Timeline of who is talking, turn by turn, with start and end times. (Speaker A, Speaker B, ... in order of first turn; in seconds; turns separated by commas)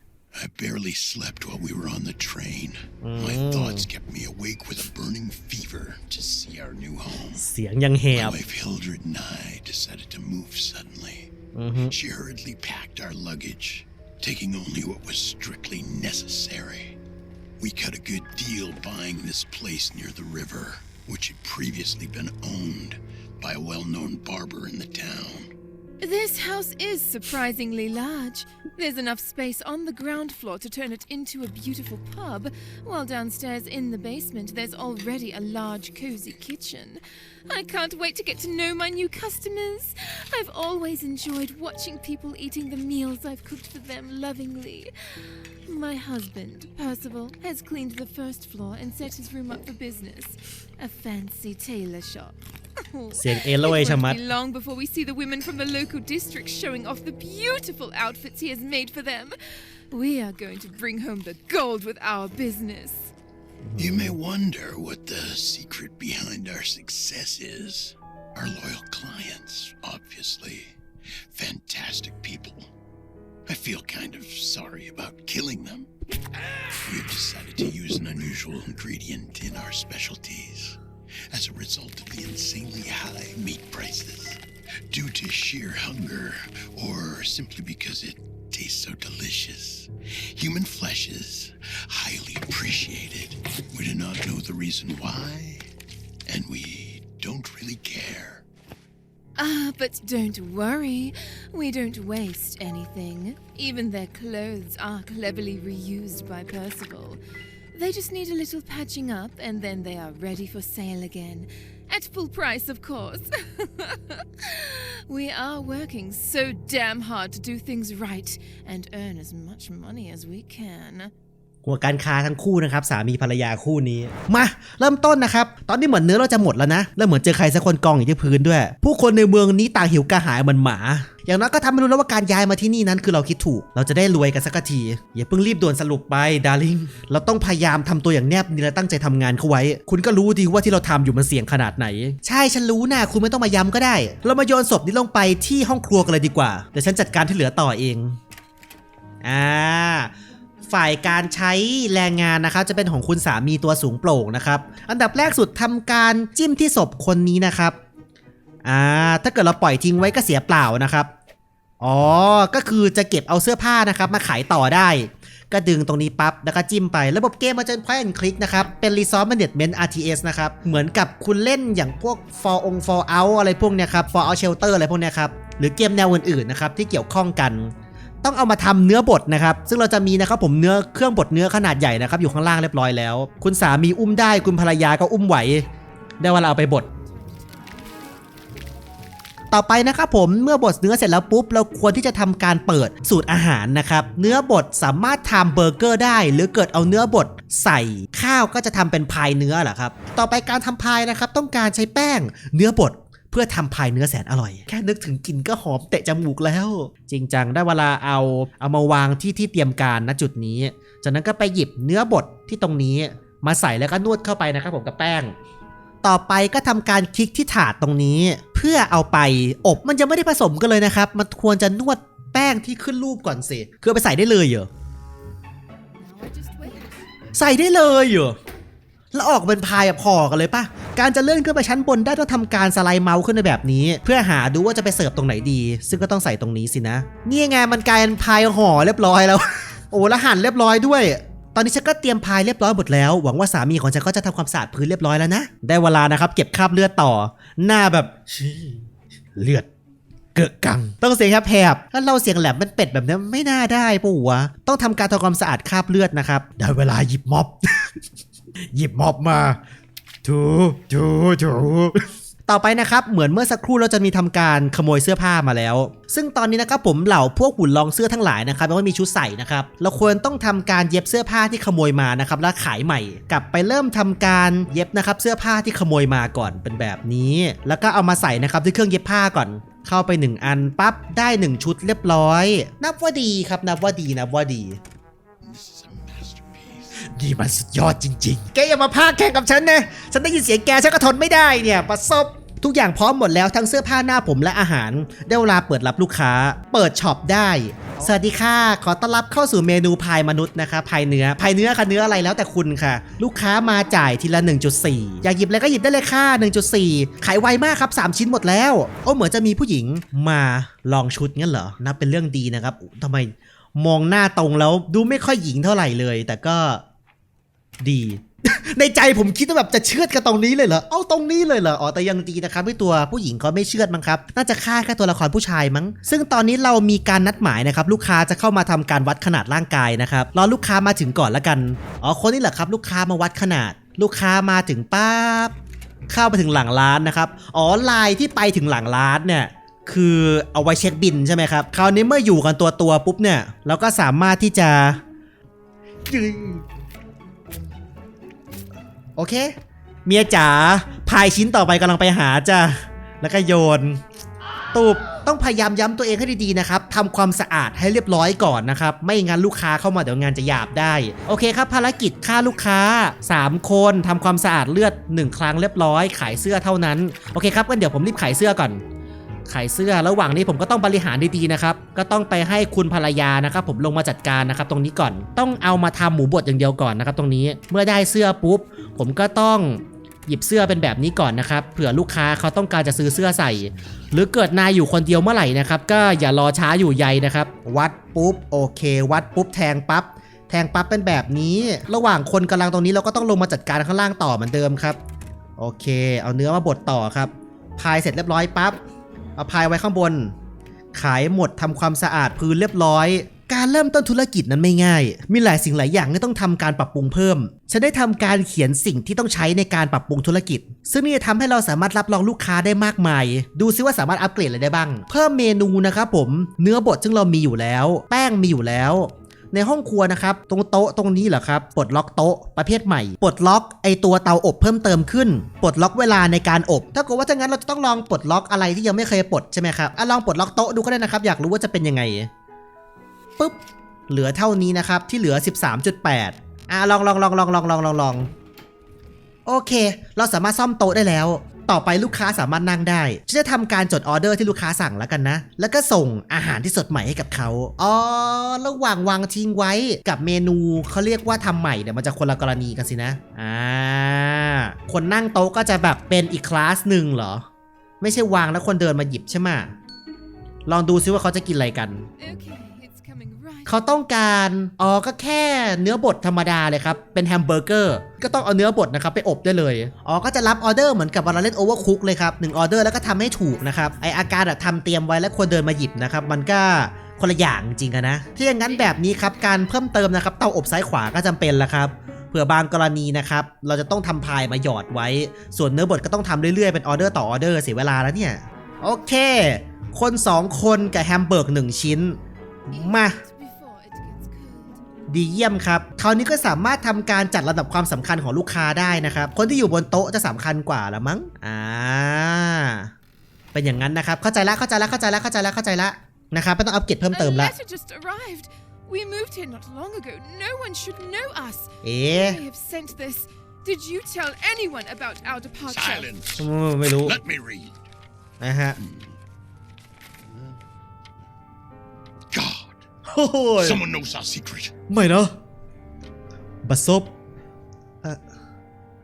Speaker A: 0.3-7.5, Speaker B: 3.0-3.9, Speaker B: 7.3-8.4, Speaker A: 8.1-11.3, Speaker B: 11.5-11.9, Speaker A: 11.8-17.0, Speaker A: 17.6-25.5, Speaker C: 26.0-59.3, Speaker B: 53.1-54.2, Speaker C: 59.9-63.1, Speaker B: 63.6-64.2, Speaker A: 63.8-70.8, Speaker A: 71.3-72.7, Speaker A: 73.5-75.9, Speaker A: 76.8-80.8, Speaker A: 81.3-95.7, Speaker A: 96.2-98.4, Speaker C: 99.4-107.2, Speaker C: 107.7-121.1, Speaker B: 121.6-148.2, Speaker B: 149.2-150.1, Speaker B: 150.7-157.8, Speaker B: 158.6-161.1, Speaker B: 161.8-185.6, Speaker B: 186.2-186.8, Speaker C: 186.9-188.1, Speaker B: 189.5-215.3, Speaker B: 216.0-224.7, Speaker C: 225.9-227.3, Speaker B: 227.3-228.3, Speaker B: 229.1-249.7, Speaker B: 250.3-258.0, Speaker B: 258.7-259.6, Speaker B: 260.2-284.8, Speaker A: 285.4-287.1, Speaker B: 287.0-316.8, Speaker B: 317.8-335.5, Speaker B: 336.1-345.0, Speaker B: 346.1-346.6, Speaker B: 349.2-349.5, Speaker B: 350.1-354.0, Speaker B: 354.7-368.8, Speaker B: 369.5-395.0, Speaker B: 395.6-398.8, Speaker B: 399.4-400.3, Speaker B: 400.9-432.3, Speaker B: 434.1-438.3, Speaker B: 439.4-457.4, Speaker B: 458.0-459.7, Speaker B: 460.6-462.1, Speaker C: 462.2-463.8, Speaker B: 463.7-492.2, Speaker C: 478.6-479.3, Speaker B: 492.7-493.2, Speaker C: 492.7-494.8, Speaker B: 495.1-502.9, Speaker B: 503.5-507.5, Speaker C: 507.1-516.1, Speaker B: 511.8-512.4, Speaker A: 515.7-517.8, Speaker B: 516.4-517.2, Speaker B: 518.4-518.8, Speaker A: 518.8-519.2, Speaker A: 522.3-522.8, Speaker B: 523.0-523.8, Speaker A: 523.6-524.7, Speaker B: 524.9-525.4, Speaker B: 526.6-527.1